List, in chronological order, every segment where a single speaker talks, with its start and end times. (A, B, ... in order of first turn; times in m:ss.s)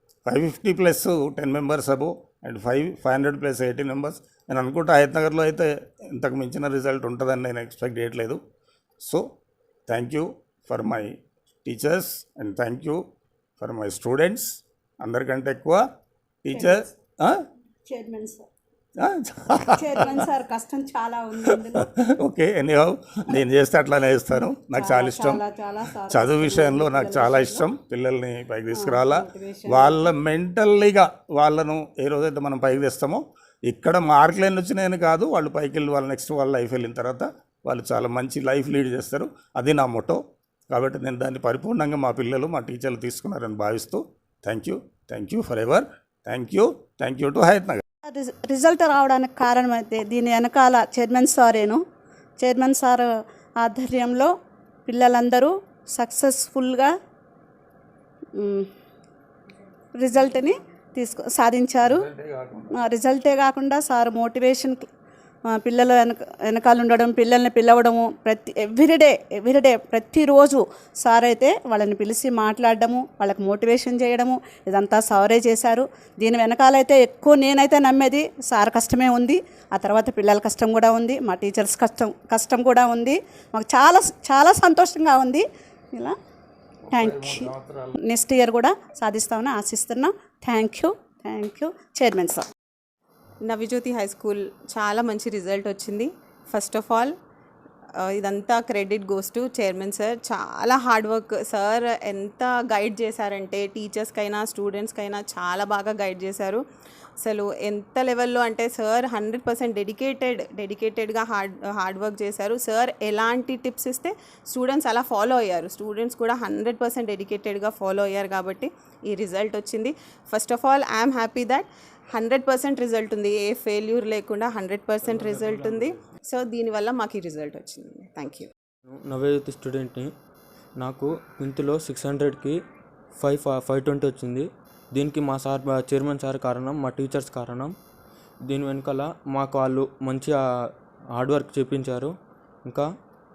0:00.2-0:08.4 A
0:09.9-0:13.0 A
0:13.6-0:15.8 A
0:16.4-0:17.4 A
0:16.5-0:16.9 B
0:17.9-0:18.4 B
0:19.0-0:20.3 A
0:19.7-0:21.9 B
0:21.4-0:25.4 A
0:24.7-0:27.7 B
0:26.1-0:47.8 A
0:28.7-0:30.1 B
0:48.1-0:51.8 B
0:52.4-0:53.1 B
0:53.6-0:54.3 B
0:54.8-0:56.9 B
0:58.4-0:58.7 B
1:00.0-1:02.1 B
1:01.8-1:02.7 A
1:02.8-1:04.9 B
1:05.5-1:26.1 B
1:26.9-1:32.4 B
1:26.9-1:27.8 A
1:33.4-1:37.1 C
1:38.0-1:46.6 C
1:47.2-2:01.6 C
2:02.2-2:08.4 C
2:08.9-2:10.1 D
2:10.8-2:12.6 D
2:13.2-2:17.7 D
2:18.5-2:20.4 D
2:21.1-2:22.8 D